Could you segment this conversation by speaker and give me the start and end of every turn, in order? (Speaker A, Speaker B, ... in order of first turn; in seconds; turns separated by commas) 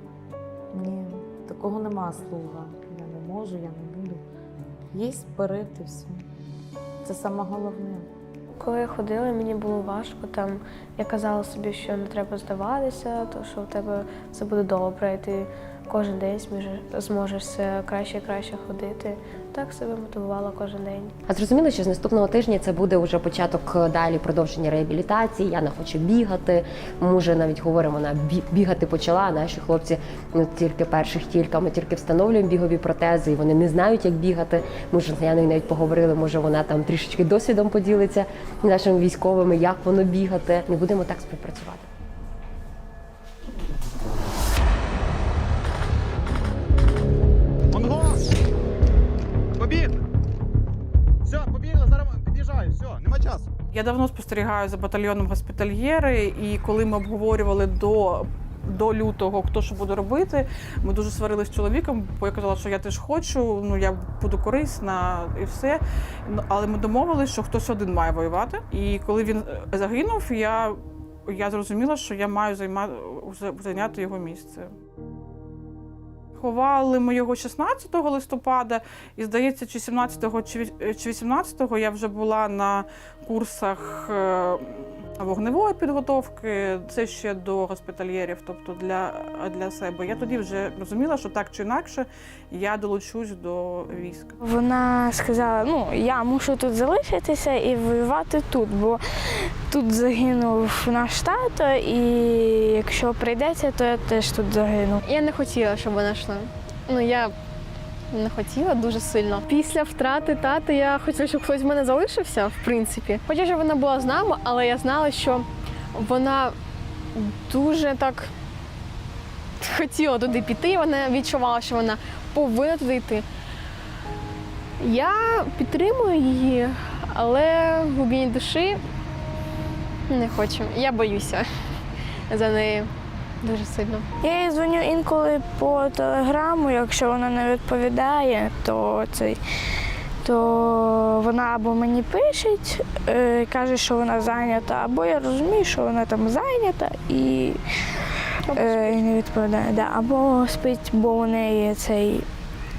Speaker A: 0.7-4.2, Speaker A: 4.9-6.2, Speaker A: 7.0-8.1, Speaker B: 8.6-21.2, Speaker C: 21.3-41.9, Speaker D: 53.7-74.7, Speaker D: 76.4-94.4, Speaker E: 94.4-105.0, Speaker F: 105.0-107.3, Speaker F: 108.1-116.5, Speaker F: 117.1-118.3, Speaker F: 119.6-123.2, Speaker F: 124.8-128.8, Speaker F: 130.1-131.5, Speaker F: 132.3-132.9, Speaker F: 133.4-134.1, Speaker E: 134.2-139.4, Speaker E: 140.2-147.6, Speaker E: 148.4-152.2